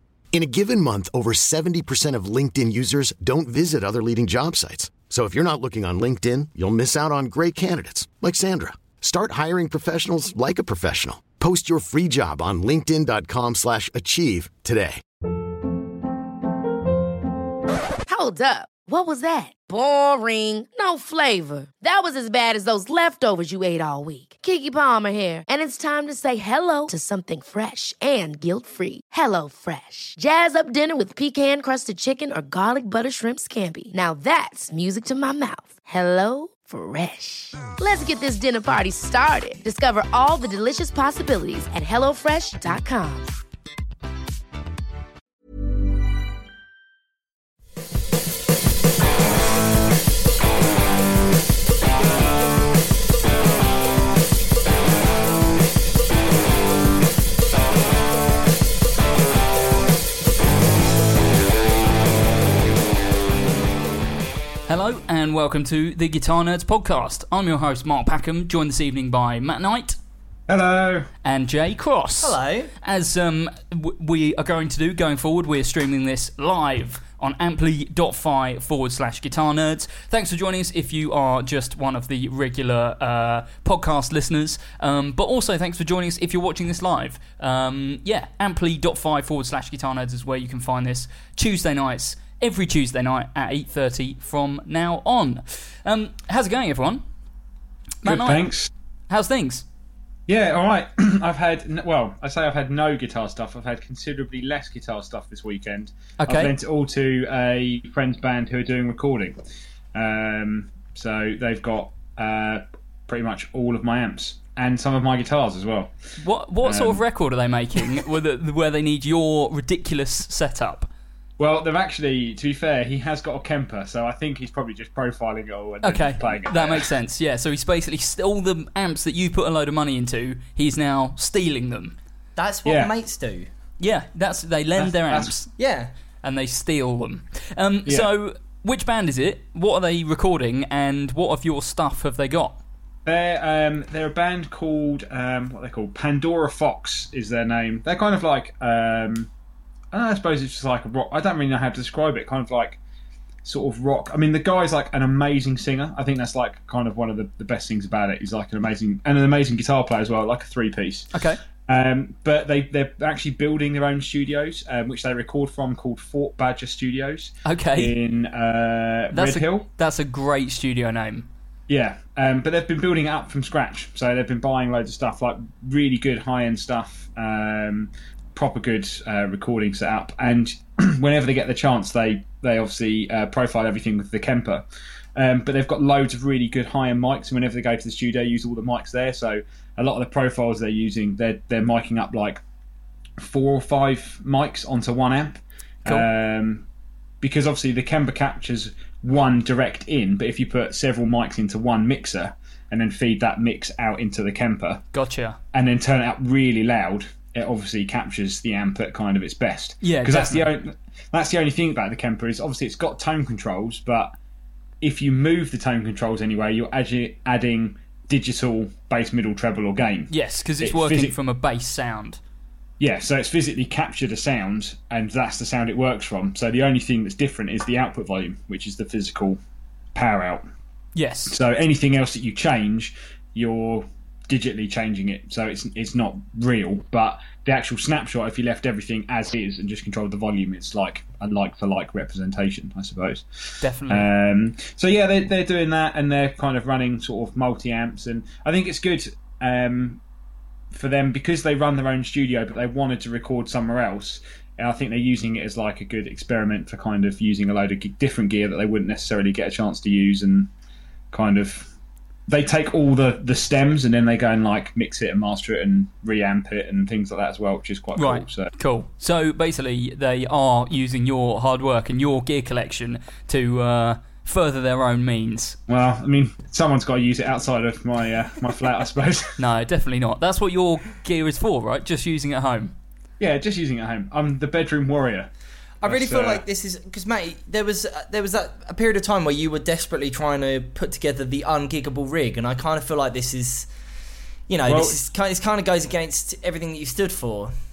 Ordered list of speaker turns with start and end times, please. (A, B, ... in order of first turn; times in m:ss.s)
0:00.3-0:15.0 A
0:18.1-0:43.3 B
1:04.7-1:10.0 C
1:10.5-1:11.1 D
1:11.2-1:37.0 C
1:12.2-1:12.7 E
1:38.0-1:38.4 C
1:38.0-1:38.7 D
1:39.1-1:39.6 C
1:40.3-1:49.4 D
1:46.2-1:46.5 C
1:49.9-1:55.9 D
1:56.2-2:00.9 C
1:56.6-1:57.0 D
2:01.4-2:06.9 D
2:05.8-2:11.9 C
2:12.4-2:13.5 E
2:12.6-2:12.9 D
2:13.8-2:15.5 C
2:14.8-2:15.3 D
2:15.6-2:15.9 E
2:16.2-2:22.6 C
2:23.0-2:29.3 D
2:29.9-2:32.8 D
2:33.4-2:41.1 D
2:41.1-2:41.4 C
2:41.7-2:49.6 D
2:47.4-2:47.9 C
2:49.1-2:51.3 C
2:51.7-3:04.6 D
3:05.2-3:12.4 D
3:13.2-3:16.6 D
3:17.2-3:24.8 D
3:24.9-3:25.4 C
3:25.5-3:34.1 D
3:29.8-3:30.5 C
3:34.8-3:41.1 D
3:40.1-3:42.2 C
3:42.8-3:49.4 D
3:49.9-3:50.4 D
3:50.9-3:51.4 C
3:51.3-4:03.2 D
4:03.6-4:04.1 C
4:03.9-4:10.0 D
4:10.7-4:20.5 D
4:21.1-4:21.7 D
4:22.3-4:28.5 D
4:28.0-4:35.6 C
4:35.7-4:39.3 D
4:39.4-4:42.7 C
4:43.2-4:45.3 D
4:45.8-4:53.7 E
4:45.8-4:46.4 D
4:54.5-4:57.5 E
4:54.7-4:55.0 D